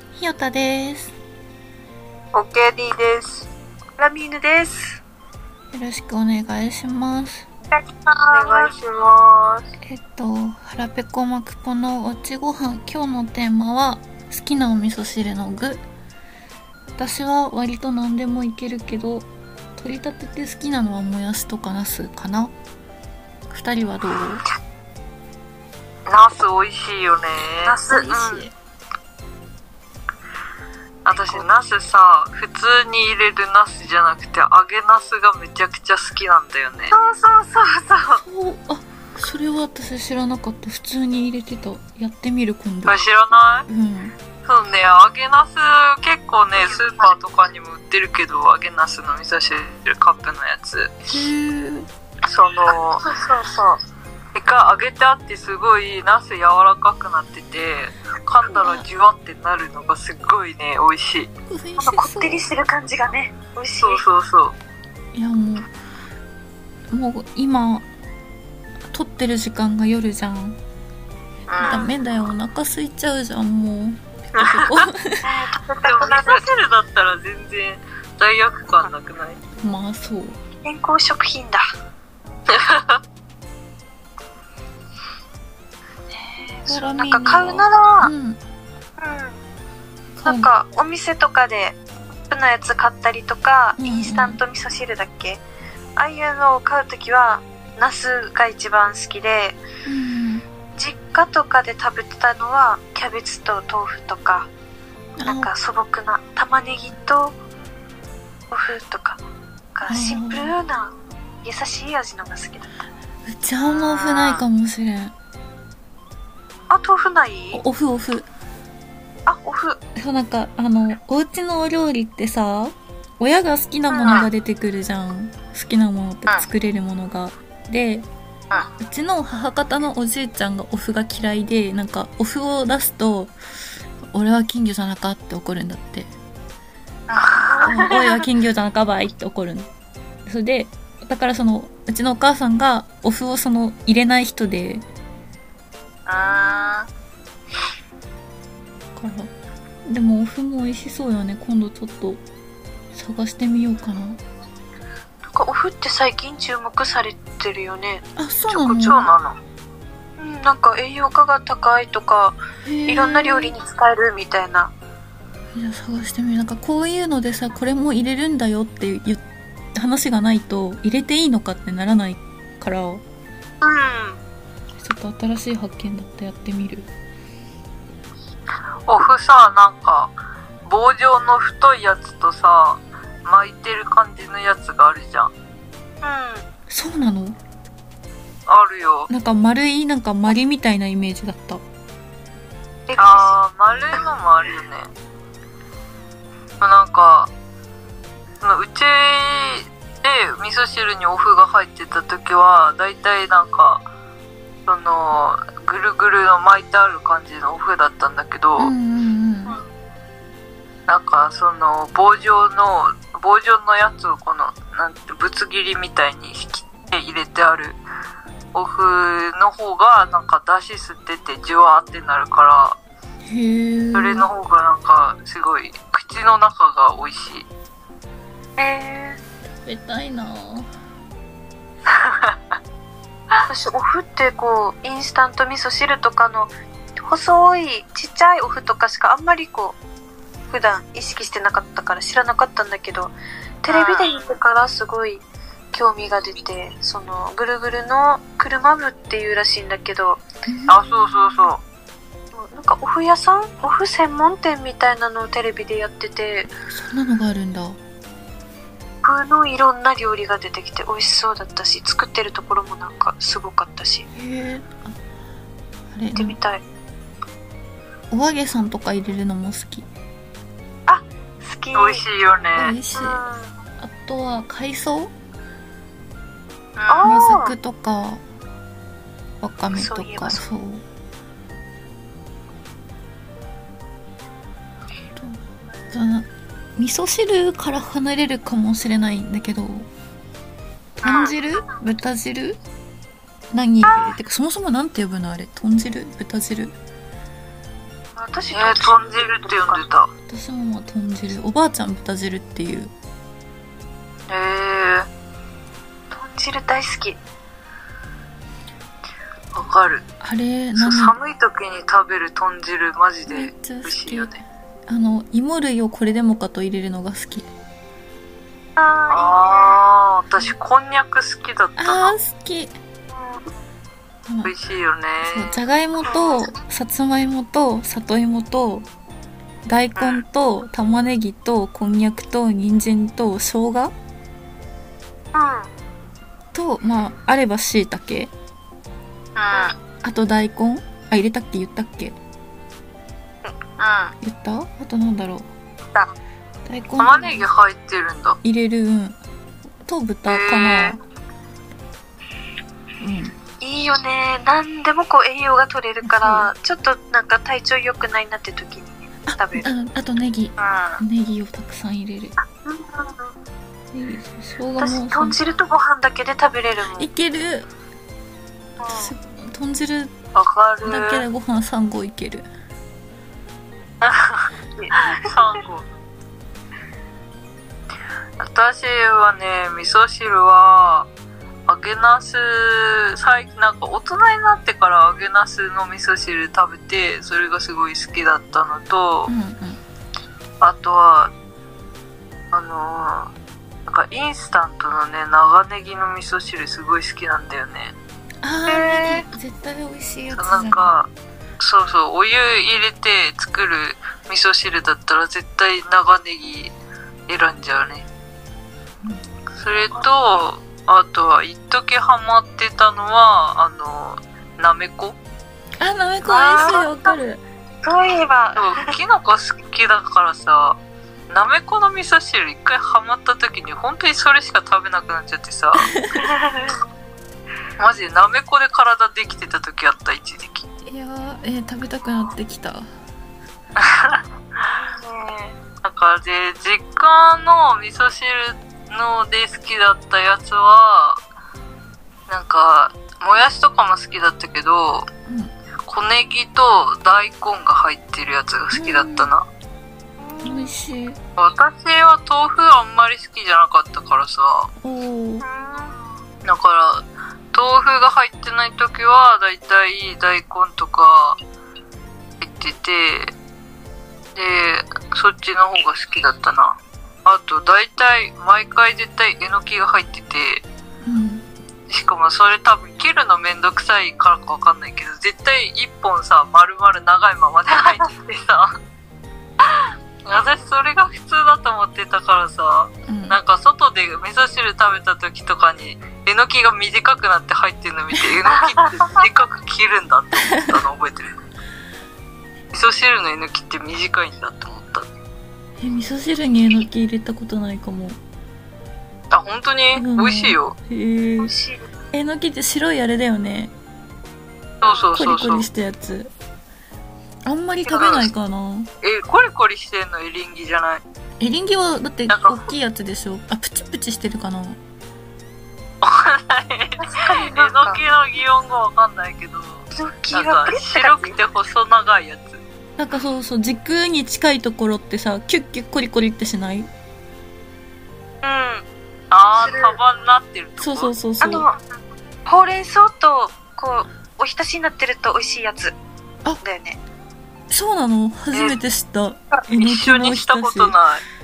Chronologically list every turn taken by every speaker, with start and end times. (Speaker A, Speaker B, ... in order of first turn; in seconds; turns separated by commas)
Speaker A: 0.1-1.1, Speaker B: 2.3-3.5, Speaker C: 4.0-5.0, Speaker A: 5.7-7.5, Speaker C: 7.7-8.7, Speaker B: 8.3-9.7, Speaker A: 9.8-15.8, Speaker A: 17.0-22.5, Speaker A: 23.5-24.4, Speaker B: 26.1-27.8, Speaker C: 27.6-28.4, Speaker A: 27.9-28.5, Speaker B: 31.0-36.9, Speaker C: 31.1-31.4, Speaker C: 36.9-38.2, Speaker A: 38.1-43.0, Speaker B: 42.9-43.7, Speaker A: 43.7-44.1, Speaker B: 44.4-51.1, Speaker A: 51.1-51.9, Speaker B: 52.2-53.0, Speaker C: 53.0-53.8, Speaker B: 54.3-61.3, Speaker A: 58.5-58.8, Speaker A: 61.5-62.5, Speaker C: 61.8-64.0, Speaker B: 63.8-64.5, Speaker A: 65.1-65.7, Speaker A: 66.9-67.8, Speaker A: 68.9-70.6, Speaker B: 71.5-71.9, Speaker A: 71.6-75.2, Speaker C: 71.6-71.9, Speaker B: 74.4-74.9, Speaker C: 75.2-76.5, Speaker B: 75.8-79.4, Speaker A: 79.6-80.3, Speaker C: 80.6-81.6, Speaker B: 82.5-83.0, Speaker C: 86.1-88.1, Speaker A: 86.7-88.4, Speaker C: 89.0-89.4, Speaker A: 90.2-90.5, Speaker C: 90.2-91.8, Speaker C: 92.3-95.4, Speaker A: 93.8-94.4, Speaker C: 96.0-99.6, Speaker A: 99.8-100.5, Speaker C: 100.8-104.5, Speaker A: 105.2-105.5, Speaker C: 105.2-107.3, Speaker C: 108.5-109.2, Speaker C: 109.7-112.7, Speaker A: 109.9-110.5, Speaker A: 113.2-115.1, Speaker C: 113.7-114.1, Speaker B: 114.1-114.4, Speaker C: 116.7-117.6, Speaker A: 117.5-118.3, Speaker C: 119.2-119.8, Speaker A: 120.0-128.1, Speaker C: 123.9-124.2, Speaker A: 128.8-133.3, Speaker A: 134.1-136.1, Speaker B: 137.1-138.0, Speaker C: 137.5-138.0, Speaker A: 137.6-139.7, Speaker A: 140.2-144.8, Speaker B: 146.1-146.9, Speaker A: 148.9-149.3, Speaker A: 149.8-152.2, Speaker A: 152.9-154.2, Speaker C: 155.3-159.1, Speaker A: 158.2-159.1, Speaker B: 158.8-159.4, Speaker C: 160.2-164.7, Speaker A: 162.6-163.6, Speaker A: 165.5-169.2, Speaker A: 169.7-173.0, Speaker C: 173.6-174.2, Speaker A: 174.8-176.9, Speaker B: 178.9-180.1, Speaker B: 180.7-185.3, Speaker C: 186.0-186.4, Speaker A: 186.7-187.4, Speaker B: 188.5-189.1, Speaker A: 189.1-191.6, Speaker C: 192.9-193.3, Speaker B: 192.9-194.9, Speaker B: 196.6-197.3, Speaker B: 198.4-203.8, Speaker B: 204.7-208.7, Speaker A: 208.6-209.6, Speaker B: 210.9-217.8, Speaker B: 218.5-222.8, Speaker A: 223.3-224.3, Speaker B: 223.9-227.4, Speaker C: 228.6-229.2, Speaker A: 229.5-230.7, Speaker B: 232.0-232.3, Speaker C: 233.5-239.8, Speaker C: 240.5-250.2, Speaker B: 243.7-244.1, Speaker A: 250.5-250.8, Speaker B: 250.7-251.6, Speaker C: 252.3-256.5, Speaker A: 256.7-257.8, Speaker C: 259.0-264.1, Speaker A: 264.1-264.9, Speaker A: 265.9-266.4, Speaker C: 266.1-266.6, Speaker A: 268.1-269.9, Speaker C: 270.9-272.0, Speaker B: 271.7-272.8, Speaker A: 272.6-273.2, Speaker C: 272.9-273.5, Speaker A: 273.8-275.1, Speaker B: 276.8-277.1, Speaker C: 276.9-277.5, Speaker A: 277.0-278.2, Speaker A: 279.4-280.8, Speaker C: 279.7-280.4, Speaker A: 285.9-289.9, Speaker A: 291.0-292.6, Speaker B: 291.0-291.3, Speaker A: 293.5-296.8, Speaker C: 298.1-299.8, Speaker B: 298.5-300.1, Speaker A: 300.3-302.9, Speaker B: 304.3-305.1, Speaker C: 306.1-307.2, Speaker B: 309.5-310.0, Speaker A: 310.2-311.2, Speaker B: 310.8-314.4, Speaker A: 313.3-314.3, Speaker A: 314.9-317.5, Speaker C: 318.8-319.8, Speaker B: 319.1-322.1, Speaker A: 321.8-322.7, Speaker C: 323.1-323.5, Speaker A: 324.3-324.5, Speaker B: 324.4-325.5, Speaker A: 325.2-328.9, Speaker A: 329.6-333.9, Speaker B: 329.9-330.2, Speaker C: 335.3-335.7, Speaker A: 336.5-338.3, Speaker B: 339.4-339.7, Speaker A: 340.0-342.1, Speaker B: 343.8-344.1, Speaker A: 344.2-345.4, Speaker A: 346.6-347.5, Speaker B: 347.0-348.4, Speaker A: 348.4-349.2, Speaker A: 349.8-351.0, Speaker B: 350.3-350.9, Speaker A: 353.0-353.4, Speaker C: 353.6-359.7, Speaker A: 356.0-356.5, Speaker A: 359.3-362.4, Speaker B: 360.6-361.0, Speaker C: 362.4-363.3, Speaker A: 363.9-365.4, Speaker C: 364.8-367.1, Speaker A: 367.0-367.7, Speaker C: 368.8-369.1, Speaker A: 368.9-370.1, Speaker B: 370.3-371.3, Speaker A: 370.8-372.4, Speaker B: 374.0-374.4, Speaker C: 374.8-375.2, Speaker B: 375.0-375.9, Speaker B: 378.4-381.1, Speaker B: 381.7-389.3, Speaker A: 389.3-389.8, Speaker B: 390.6-391.3, Speaker B: 392.5-393.3, Speaker B: 393.9-397.9, Speaker A: 398.4-400.9, Speaker C: 398.7-399.2, Speaker B: 400.3-401.1, Speaker B: 401.6-406.7, Speaker B: 407.3-408.1, Speaker B: 409.6-415.2, Speaker A: 415.8-417.4, Speaker C: 416.2-417.1, Speaker C: 417.8-418.9, Speaker B: 418.6-420.8, Speaker B: 421.3-425.9, Speaker C: 426.1-426.8, Speaker B: 427.8-430.6, Speaker A: 430.9-432.9, Speaker B: 433.8-434.2, Speaker C: 434.6-435.6, Speaker B: 435.8-441.2, Speaker B: 442.3-445.1, Speaker B: 445.9-449.4, Speaker A: 448.7-449.3, Speaker C: 450.2-450.7, Speaker A: 450.4-451.2, Speaker B: 451.4-454.7, Speaker A: 454.8-455.4, Speaker C: 455.4-455.9, Speaker B: 456.4-461.4, Speaker B: 462.4-463.3, Speaker B: 464.3-470.6, Speaker A: 471.0-471.4, Speaker B: 471.9-478.7, Speaker B: 479.6-491.3, Speaker A: 483.1-483.4, Speaker C: 488.5-489.2, Speaker B: 492.7-495.1, Speaker A: 495.8-498.2, Speaker B: 499.3-500.7, Speaker A: 499.9-501.5, Speaker C: 501.4-501.9, Speaker A: 502.1-503.7, Speaker B: 504.8-505.7, Speaker A: 504.8-506.3, Speaker A: 507.4-508.9, Speaker B: 507.9-508.3, Speaker B: 509.0-511.0, Speaker A: 511.4-514.8, Speaker B: 512.3-512.7, Speaker B: 516.0-522.6, Speaker C: 517.0-518.0, Speaker C: 519.9-521.4, Speaker A: 523.0-526.9, Speaker B: 528.4-531.1, Speaker C: 529.6-530.0, Speaker A: 530.8-531.7, Speaker C: 531.4-531.8, Speaker C: 532.5-536.0, Speaker C: 536.6-537.0, Speaker A: 537.7-541.0, Speaker B: 538.5-538.8, Speaker B: 539.7-541.2